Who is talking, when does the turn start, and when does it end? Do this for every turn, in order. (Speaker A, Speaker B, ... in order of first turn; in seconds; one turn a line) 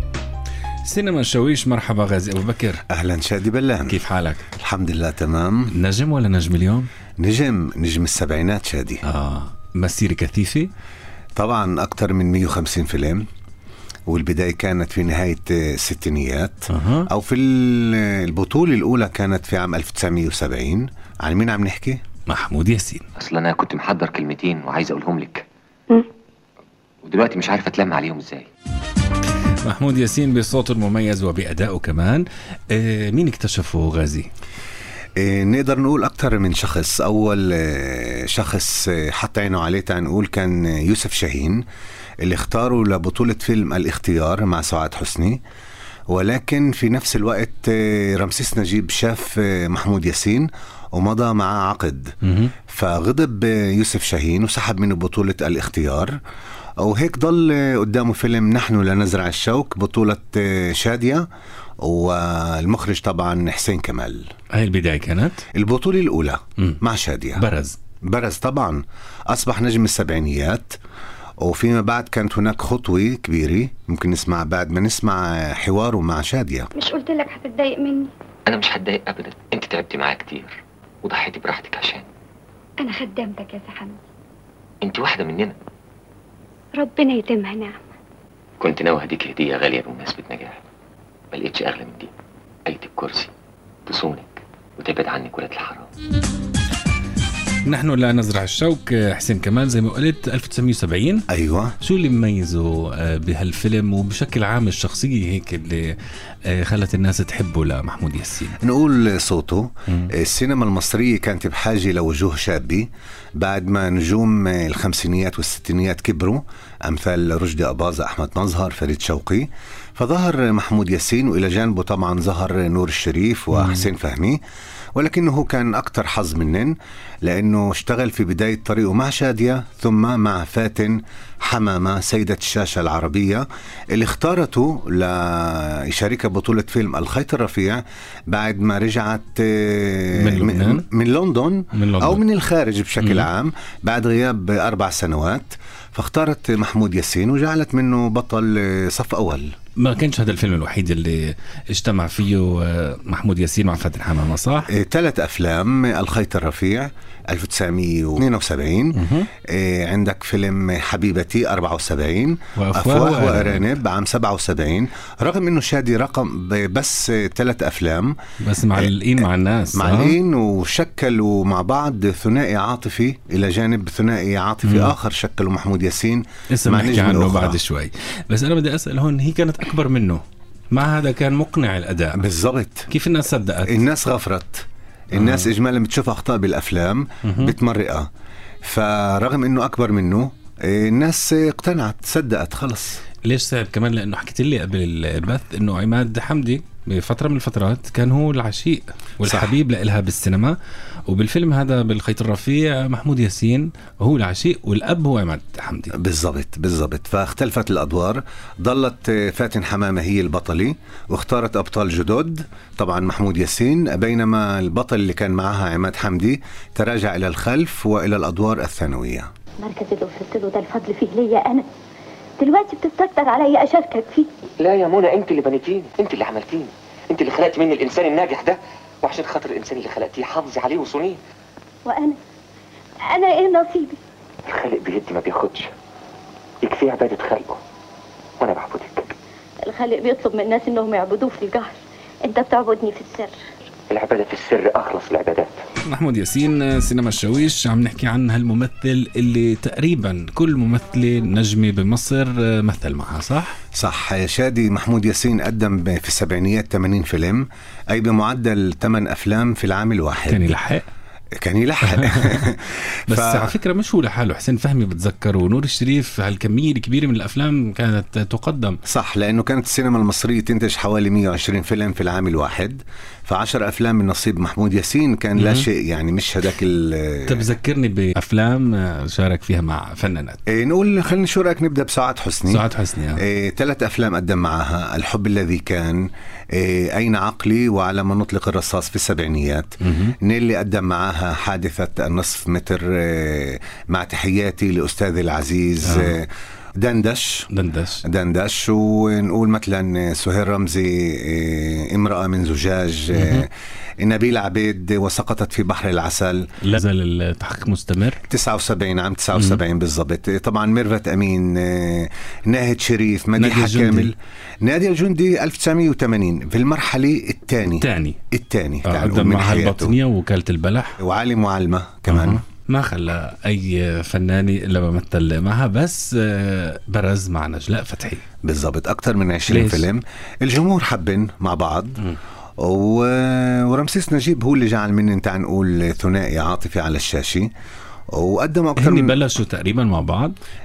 Speaker A: 0.8-2.8
Speaker B: 2.9-4.0
Speaker A: 3.9-4.5
Speaker B: 4.6-5.7
Speaker A: 5.7-6.9
Speaker B: 7.2-9.0
Speaker A: 9.0-10.7
Speaker B: 11.3-13.2
Speaker B: 14.1-22.0
Speaker A: 16.7-17.1
Speaker A: 22.3-23.0
Speaker C: 23.2-25.4
Speaker C: 27.0-28.5
Speaker A: 29.6-34.3
Speaker B: 35.2-41.6
Speaker B: 42.2-45.4
Speaker B: 46.1-52.1
Speaker A: 52.2-52.5
Speaker B: 52.7-56.2
Speaker B: 56.8-61.2
Speaker B: 61.8-64.3
Speaker A: 64.5-65.4
Speaker B: 65.5-67.4
Speaker A: 67.4-67.8
Speaker B: 68.0-70.8
Speaker B: 71.4-76.7
Speaker D: 76.8-78.1
Speaker C: 78.5-82.0
Speaker D: 82.8-84.0
Speaker C: 84.8-85.5
Speaker D: 86.8-87.7
Speaker C: 88.6-90.6
Speaker C: 91.3-92.1
Speaker C: 92.7-93.3
Speaker C: 93.9-95.9
Speaker A: 97.6-101.2
Speaker B: 101.3-101.7
Speaker A: 101.8-105.9
Speaker A: 106.5-108.6
Speaker B: 108.6-124.4
Speaker A: 123.5-123.9
Speaker B: 125.0-149.5
Speaker A: 140.1-140.8
Speaker A: 141.7-142.2
Speaker A: 143.0-143.3
Speaker A: 149.8-154.7
Speaker B: 154.7-168.2
Speaker A: 158.9-159.3
Speaker A: 162.6-163.7
Speaker A: 168.4-170.2
Speaker B: 169.7-177.6
Speaker A: 174.6-174.9
Speaker A: 176.5-182.2
Speaker B: 182.2-182.9
Speaker A: 182.9-183.8
Speaker B: 183.7-188.1
Speaker A: 185.1-185.5
Speaker A: 187.2-187.5
Speaker B: 188.6-193.0
Speaker A: 193.2-200.6
Speaker B: 199.2-199.5
Speaker A: 201.1-205.9
Speaker B: 206.0-219.3
Speaker E: 219.6-221.7
Speaker E: 222.4-224.3
Speaker C: 224.6-231.2
Speaker E: 231.8-232.2
Speaker E: 233.1-234.0
Speaker C: 234.5-235.7
Speaker C: 236.6-237.6
Speaker C: 238.4-239.1
Speaker E: 239.6-243.3
Speaker C: 243.9-245.5
Speaker A: 245.8-253.6
Speaker B: 253.8-260.5
Speaker A: 260.3-260.8
Speaker B: 261.4-263.5
Speaker A: 261.8-262.4
Speaker A: 263.1-268.8
Speaker B: 268.9-277.5
Speaker A: 275.4-275.6
Speaker A: 277.3-280.4
Speaker B: 280.5-282.6
Speaker A: 282.5-283.2
Speaker B: 283.2-297.5
Speaker A: 289.8-290.1
Speaker A: 295.8-296.1
Speaker A: 297.5-298.0
Speaker B: 298.0-303.5
Speaker A: 303.1-303.4
Speaker B: 304.0-306.4
Speaker A: 306.6-308.2
Speaker B: 308.3-320.0
Speaker A: 309.3-309.6
Speaker A: 313.4-314.1
Speaker A: 317.7-318.2
Speaker A: 318.9-320.9
Speaker B: 321.0-322.4
Speaker A: 322.1-328.2
Speaker B: 328.4-332.0
Speaker A: 329.5-329.9
Speaker B: 332.6-337.5
Speaker B: 338.1-339.1
Speaker A: 338.8-340.4